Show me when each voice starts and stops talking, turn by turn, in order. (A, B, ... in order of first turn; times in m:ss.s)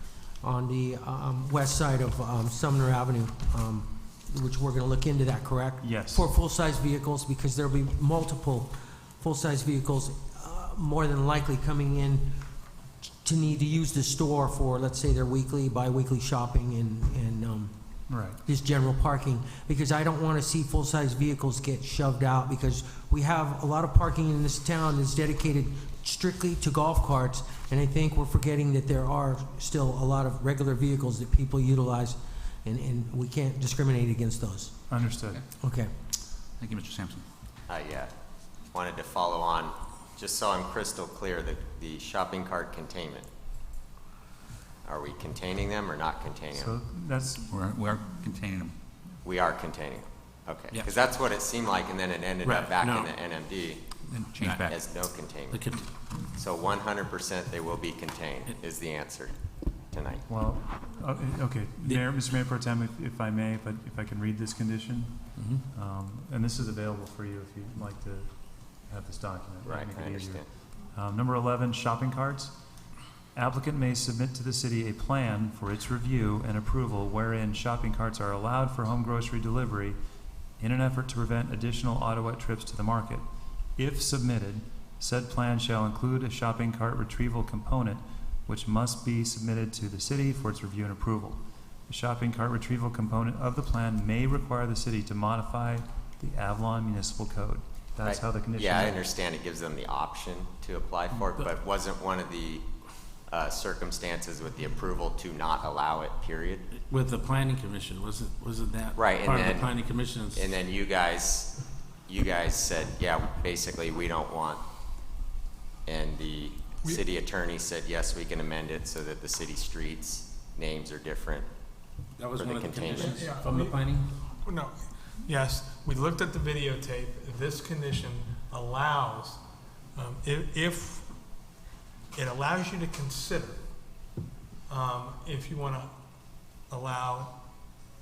0:00.4-0:12.3 A
0:05.8-0:06.3 B
0:13.2-0:17.7 A
0:18.1-0:18.4 B
0:18.4-0:34.7 A
0:34.9-0:35.4 B
0:35.6-0:35.9 A
0:36.6-0:37.2 C
0:37.7-0:38.1 D
0:38.7-0:43.3 D
0:44.8-0:46.7 D
0:46.5-0:47.5 B
0:47.5-0:48.7 C
0:49.2-0:53.8 D
0:50.7-0:51.0 C
0:52.4-0:53.1 E
0:54.0-0:54.9 C
0:54.4-0:55.7 D
0:55.5-0:55.8 E
0:56.3-0:59.3 D
0:59.9-1:00.2 D
1:00.3-1:05.2 B
1:05.4-1:05.6 E
1:05.7-1:12.5 B
1:09.6-1:10.4 D
1:13.3-1:20.0 B
1:20.6-1:23.2 B
1:23.8-1:39.0 B
1:38.0-1:42.6 D
1:43.3-1:46.6 D
1:46.9-1:50.5 E
1:48.9-1:49.8 D
1:50.3-1:51.5 D
1:52.1-1:54.6 D
1:55.8-2:01.5 D
2:02.2-2:04.0 E
2:02.4-2:03.3 D
2:02.9-2:09.4 F
2:10.0-2:11.1 F
2:12.1-2:13.7 F
2:14.7-2:15.9 F
2:16.7-2:17.3 F